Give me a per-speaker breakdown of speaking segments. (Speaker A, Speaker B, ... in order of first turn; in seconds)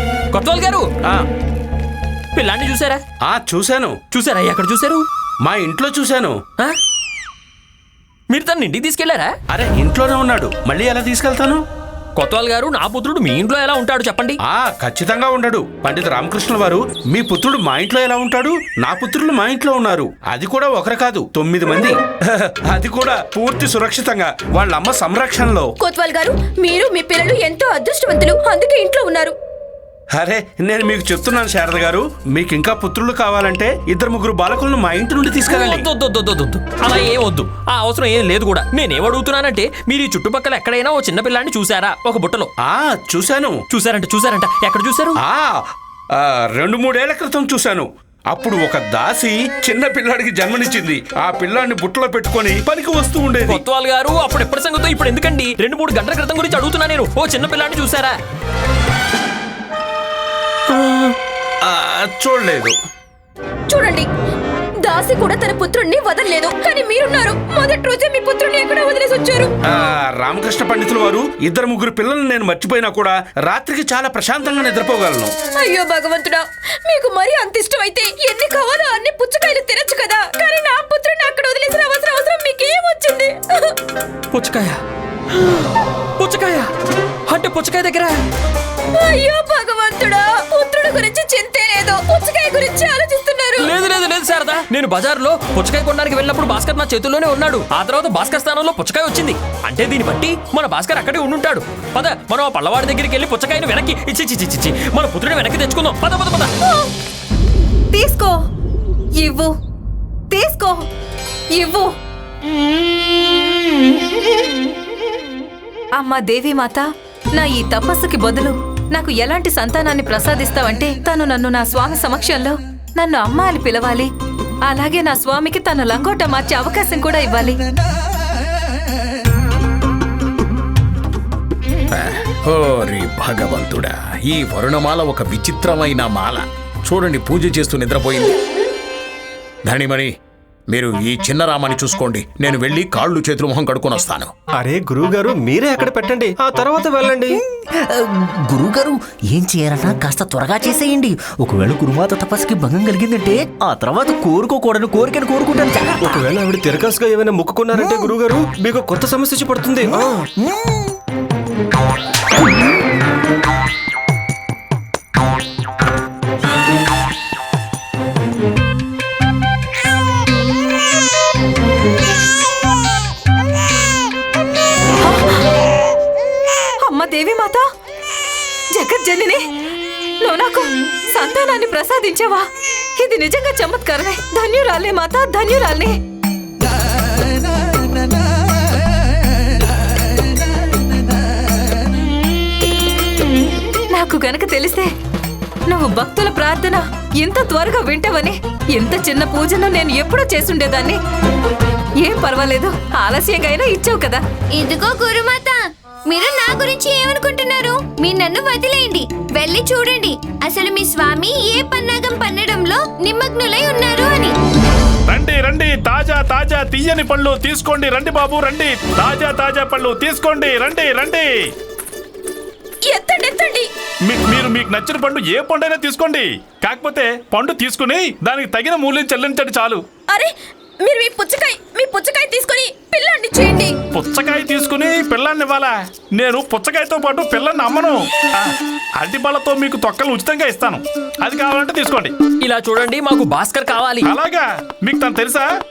Speaker A: 0.3-0.9, 2.4-3.0, 4.1-5.0, 8.3-9.3, 12.2-14.4, 35.5-42.5, 43.7-45.2, 53.4-58.2, 84.3-84.8, 86.2-86.7, 87.3-88.2, 93.6-106.5, 242.4-244.1
Speaker B: 3.2-4.0, 5.4-6.4, 9.5-11.6, 14.4-25.7, 30.1-35.9, 42.6-43.6, 45.2-45.6, 46.2-53.6, 61.6-62.8, 69.7-75.3
Speaker C: 25.8-29.4, 63.7-64.1, 64.8-69.5, 75.5-83.8, 88.9-93.7, 222.8-223.7, 230.1-233.8
Speaker D: 107.9-108.4, 109.2-109.5, 110.3-110.8, 111.6-111.9, 116.0-116.8, 117.3-124.1, 124.7-127.6, 175.0-175.5, 176.8-177.6, 178.7-179.5, 180.2-182.4, 183.0-185.9, 193.9-194.9, 195.7-201.0, 202.0-204.2, 226.9-227.3, 234.7-235.7, 236.2-237.9, 240.1-240.6
Speaker E: 131.9-138.4, 139.7-140.1, 140.7-144.3
Speaker F: 144.6-147.4, 156.0-160.2
Speaker G: 147.9-156.2, 157.8-158.1, 159.9-160.9
Speaker H: 204.5-214.3
Speaker I: 215.1-221.2, 224.1-229.8, 234.0-234.8, 236.5-237.6, 239.0-240.8, 241.3-242.1, 244.1-245.4